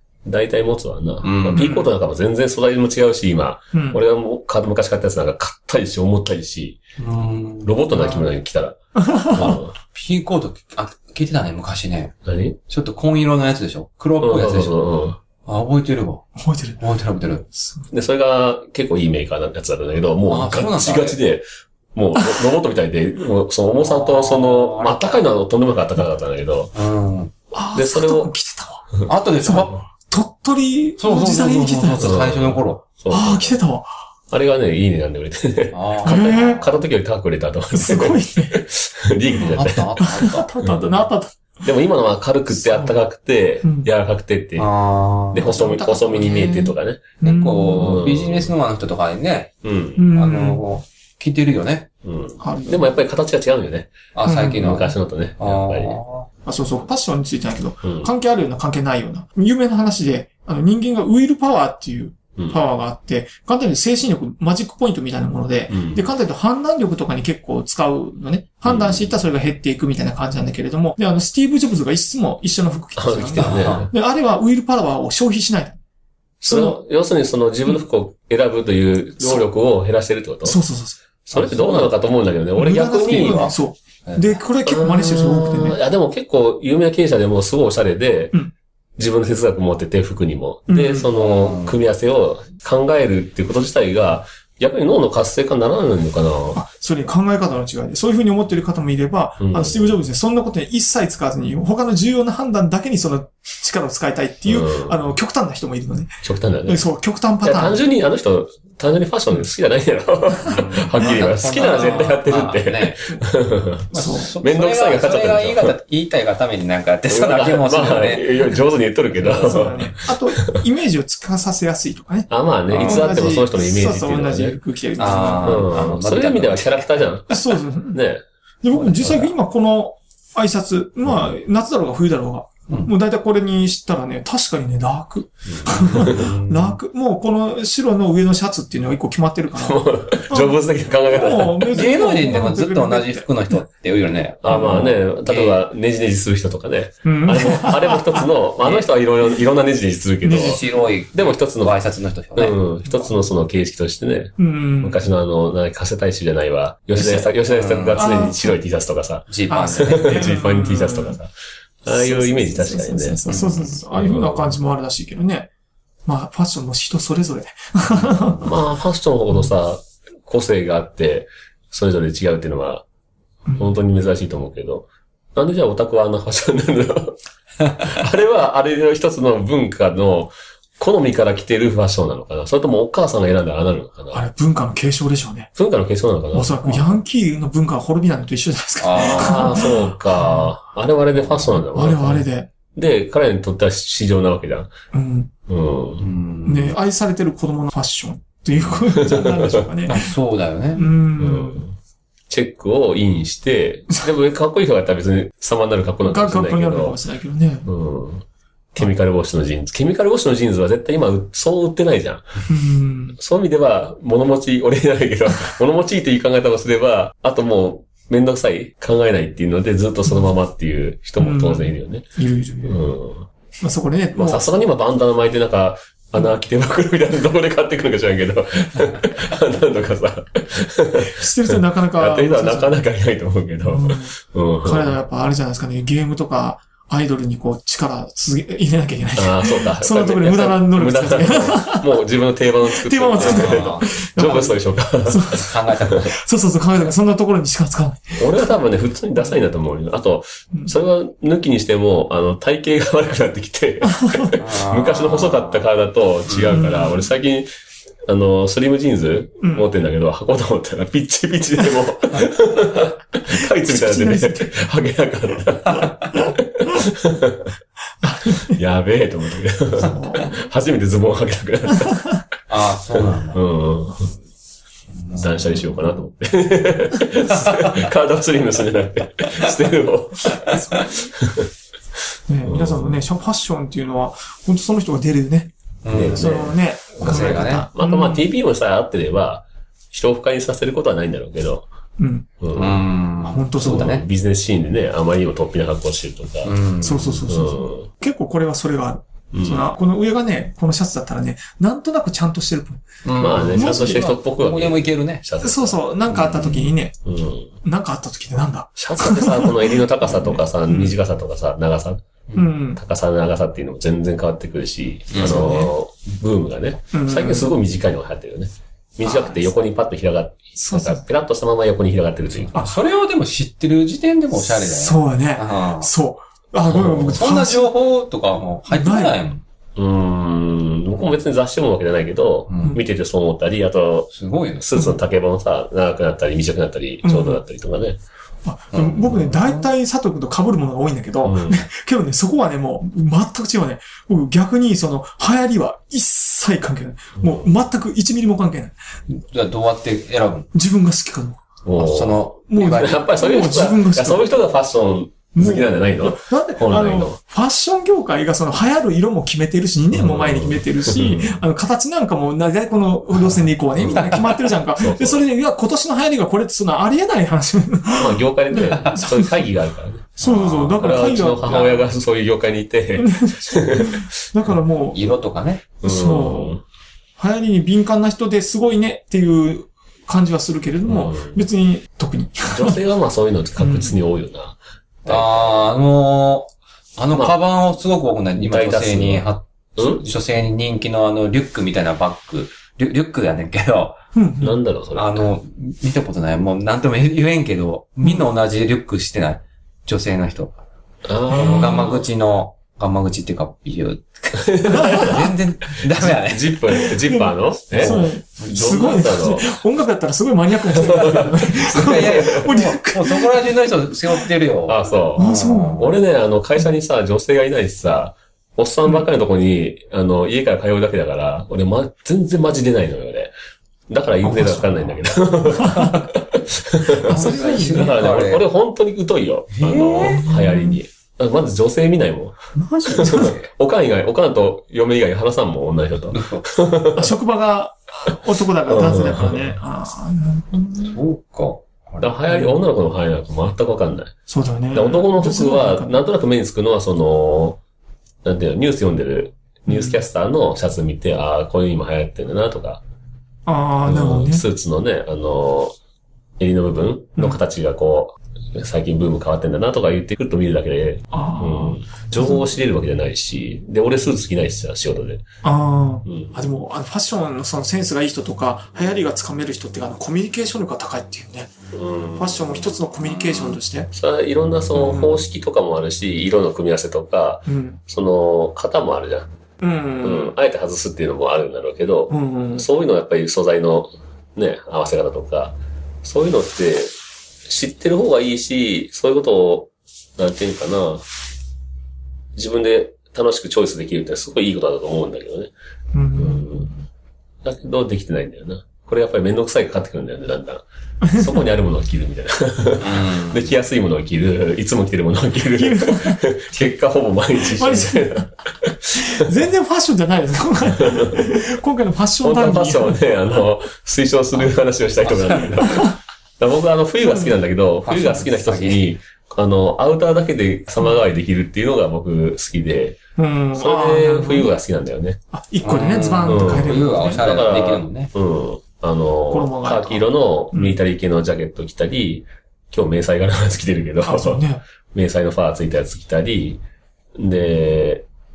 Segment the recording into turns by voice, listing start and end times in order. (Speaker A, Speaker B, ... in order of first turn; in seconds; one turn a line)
Speaker A: 0.2-6.8
Speaker B: 1.2-1.8
Speaker C: 1.5-1.8
Speaker C: 3.7-4.0
Speaker B: 7.0-8.2
Speaker A: 7.6-9.7
Speaker C: 9.0-9.5
Speaker B: 9.4-12.1
Speaker A: 12.2-12.6
Speaker B: 12.7-14.8
Speaker A: 14.2-15.2
Speaker B: 15.4-16.3
Speaker C: 16.4-16.8
Speaker B: 16.8-17.5
Speaker C: 17.6-17.8
Speaker A: 17.9-26.7
Speaker B: 20.3-21.2
Speaker C: 22.2-22.4
Speaker B: 23.8-25.3
Speaker B: 26.7-27.3
Speaker C: 27.5-32.2
Speaker A: 27.7-28.3
Speaker B: 29.1-29.8
Speaker B: 31.0-32.8
Speaker A: 32.0-33.6
Speaker C: 33.1-33.9
Speaker A: 34.3-40.9
Speaker B: 35.7-36.7
Speaker C: 36.0-36.7
Speaker C: 37.7-38.6
Speaker B: 39.4-40.5
Speaker C: 40.0-41.5
Speaker A: 41.6-44.7
Speaker C: 42.5-43.0
Speaker C: 43.6-43.9
Speaker B: 44.6-45.5
Speaker A: 45.3-47.1
Speaker C: 45.4-48.0
Speaker B: 47.2-49.5
Speaker A: 47.8-48.5
Speaker A: 49.6-50.0
Speaker C: 50.0-50.6
Speaker B: 50.1-51.9
Speaker A: 52.0-56.0
Speaker C: 52.4-52.9
Speaker B: 54.1-56.3
Speaker C: 54.2-54.8
Speaker C: 56.5-75.8
Speaker A: 57.8-58.1
Speaker A: 65.7-66.0
Speaker A: 68.6-69.1
Speaker A: 73.0-73.9
Speaker B: 73.4-73.9
Speaker A: 76.4-80.6
Speaker C: 76.4-76.8
Speaker C: 80.4-81.0
Speaker A: 81.3-83.5
Speaker B: 81.3-81.9
Speaker C: 82.5-85.8
Speaker B: 82.9-84.4
Speaker A: 84.6-88.3
Speaker A: 89.0-96.6
Speaker C: 90.7-91.1
Speaker B: 91.1-91.8
Speaker C: 96.5-107.8
Speaker A: 99.4-100.0
Speaker A: 104.5-105.0
Speaker A: 106.2-106.8
Speaker A: 107.4-113.9
Speaker B: 110.5-113.0
Speaker B: 113.9-118.5
Speaker C: 113.9-114.3
Speaker A: 114.4-115.7
Speaker A: 117.1-120.5
Speaker C: 119.2-125.7
Speaker A: 122.3-124.6
Speaker B: 122.7-123.2
Speaker B: 125.0-127.1
Speaker A: 125.4-128.2
Speaker C: 127.3-128.0
Speaker C: 128.6-143.5
Speaker B: 128.7-129.3
Speaker A: 131.0-131.3
Speaker A: 135.5-136.3
Speaker B: 135.7-136.8
Speaker A: 139.6-141.9
Speaker B: 141.7-145.6
Speaker A: 144.4-151.8
Speaker C: 144.5-144.9
Speaker C: 147.0-148.3
Speaker B: 150.2-152.6
Speaker C: 150.3-150.7
Speaker A: 152.3-161.3
Speaker C: 154.4-155.0
Speaker B: 156.9-158.1
Speaker C: 157.9-158.6
Speaker B: 159.3-160.4
Speaker C: 159.5-161.2
Speaker A: 161.8-163.2
Speaker C: 161.8-165.5
Speaker B: 163.3-163.8
Speaker A: 163.9-164.6
Speaker C: 166.1-168.5
Speaker B: 168.0-168.4
Speaker A: 168.4-172.8
Speaker C: 173.4-173.7
Speaker A: 173.6-177.2
Speaker A: 177.8-184.2
Speaker C: 184.1-185.5
Speaker A: 185.6-186.9
Speaker C: 186.3-190.5
Speaker B: 188.8-189.7
Speaker A: 188.9-192.2
Speaker B: 191.2-191.5
Speaker C: 191.7-192.5
Speaker A: 192.7-194.7
Speaker C: 194.9-195.3
Speaker A: 195.5-196.0
Speaker B: 196.0-196.8
Speaker C: 196.4-200.1
Speaker A: 198.6-199.6
Speaker B: 199.8-200.9
Speaker C: 200.8-201.6
Speaker A: 201.2-201.7
Speaker A: 202.3-207.0
Speaker C: 206.0-207.7
Speaker A: 207.7-212.3
Speaker C: 212.5-213.2
Speaker A: 213.2-222.0
Speaker C: 221.2-222.9
Speaker A: 222.6-223.3
Speaker C: 223.6-224.5
Speaker A: 224.1-234.9
Speaker C: 231.0-232.8
Speaker C: 233.6-242.0
Speaker A: 239.2-245.9
Speaker C: 242.7-248.5
Speaker B: 243.2-243.9
Speaker B: 245.4-246.1
Speaker A: 248.2-257.5
Speaker C: 253.8-254.3
Speaker B: 254.3-255.7
Speaker B: 256.3-256.5
Speaker C: 256.5-257.1
Speaker A: 258.1-267.5
Speaker C: 259.4-259.7
Speaker C: 263.3-264.6
Speaker C: 268.0-268.6
Speaker A: 268.4-272.1
Speaker C: 269.8-270.3
Speaker B: 272.5-273.4
Speaker A: 272.9-274.1
Speaker B: 274.9-275.7
Speaker A: 275.1-281.5
Speaker B: 277.4-277.7
Speaker C: 280.5-281.1
Speaker C: 282.3-285.5
Speaker A: 282.4-283.0
Speaker B: 285.8-287.6
Speaker A: 285.9-291.7
Speaker C: 286.1-288.2
Speaker C: 292.0-292.3
Speaker A: 292.4-292.8
Speaker B: 292.5-294.0
Speaker C: 293.2-294.0
Speaker A: 293.6-296.5
Speaker B: 296.4-297.3
Speaker C: 296.8-304.1
Speaker A: 297.3-297.9
Speaker A: 299.3-299.7
Speaker B: 303.0-305.2
Speaker A: 303.2-305.8
Speaker C: 305.4-307.0
Speaker B: 306.1-306.7
Speaker A: 307.0-307.5
Speaker C: 307.6-309.8
Speaker A: 308.8-312.0
Speaker C: 310.7-310.9
Speaker C: 312.3-312.8
Speaker A: 312.8-322.5
Speaker B: 315.1-315.6
Speaker C: 315.2-315.7
Speaker C: 316.9-317.5
Speaker C: 319.0-319.5
Speaker C: 320.6-321.0
Speaker B: 322.3-325.9
Speaker C: 324.4-327.7
Speaker B: 326.6-329.4
Speaker C: 328.7-329.2
Speaker A: 329.8-338.0
Speaker B: 332.5-332.8
Speaker B: 334.1-334.6
Speaker C: 337.0-337.4
Speaker C: 338.4-348.7
Speaker B: 338.7-339.7
Speaker A: 341.2-341.7
Speaker A: 347.2-347.4
Speaker B: 349.1-350.5
Speaker C: 350.5-351.4
Speaker A: 351.6-357.2
Speaker B: 351.8-353.0
Speaker C: 352.5-354.4
Speaker C: 355.3-369.5
Speaker A: 359.9-361.4
Speaker A: 363.8-365.2
Speaker B: 363.9-364.2
Speaker A: 367.9-374.1
Speaker C: 370.2-371.8
Speaker B: 370.2-370.8
Speaker C: 373.0-375.0
Speaker B: 374.9-375.6
Speaker C: 375.8-376.6
Speaker A: 375.8-376.6
Speaker C: 377.2-382.8
Speaker A: 380.9-381.4
Speaker A: 382.5-385.7
Speaker C: 383.6-384.0
Speaker B: 385.1-394.0
Speaker A: 388.4-389.2
Speaker A: 389.8-390.0
Speaker C: 394.1-394.6
Speaker A: 394.4-395.2
Speaker B: 394.9-400.6
Speaker A: 401.1-402.1
Speaker C: 401.3-401.9
Speaker B: 401.3-406.6
Speaker A: 404.3-405.3
Speaker C: 404.7-405.2
Speaker A: 405.9-409.6
Speaker C: 406.7-413.5
Speaker B: 407.7-408.9
Speaker A: 410.7-412.5
Speaker B: 411.6-415.9
Speaker A: 414.7-423.3
Speaker C: 415.2-415.9
Speaker A: 423.9-437.1
Speaker C: 424.2-425.0
Speaker C: 425.6-426.0
Speaker C: 427.0-428.0
Speaker B: 427.0-428.4
Speaker B: 429.5-430.2
Speaker C: 430.0-430.8
Speaker C: 432.6-433.4
Speaker B: 433.0-433.5
Speaker B: 436.1-436.5
Speaker C: 436.9-441.0
Speaker A: 438.6-439.5
Speaker B: 440.8-442.1
Speaker A: 442.0-444.1
Speaker C: 442.3-442.6
Speaker C: 444.3-446.0
Speaker A: 444.7-447.6
Speaker A: 448.2-452.8
Speaker C: 449.7-450.0
Speaker C: 453.4-454.4
Speaker A: 453.9-455.7
Speaker A: 456.4-465.2
Speaker C: 461.1-462.4
Speaker C: 465.4-471.5
Speaker A: 466.1-466.3
Speaker A: 471.7-472.6
Speaker C: 472.1-473.9
Speaker B: 473.2-473.6
Speaker A: 473.9-479.3
Speaker C: 474.7-475.2
Speaker C: 477.5-477.8
Speaker C: 479.6-480.3
Speaker A: 480.0-486.9
Speaker C: 482.1-482.7
Speaker A: 487.4-491.0
Speaker A: 492.3-495.5
Speaker C: 495.9-496.8
Speaker A: 496.1-496.7
Speaker A: 497.4-500.6
Speaker C: 501.0-501.4
Speaker A: 501.1-509.3
Speaker B: 502.8-503.5
Speaker C: 505.5-506.2
Speaker C: 507.5-508.2
Speaker C: 508.9-513.0
Speaker A: 510.8-511.2
Speaker A: 512.2-523.0
Speaker B: 515.0-515.6
Speaker C: 515.6-515.9
Speaker C: 517.0-517.4
Speaker B: 517.8-518.8
Speaker C: 523.2-524.5
Speaker A: 523.5-525.2
Speaker C: 525.3-527.3
Speaker B: 525.6-528.1
Speaker A: 526.3-536.6
Speaker C: 529.3-530.8
Speaker C: 534.0-534.6
Speaker A: 537.1-538.0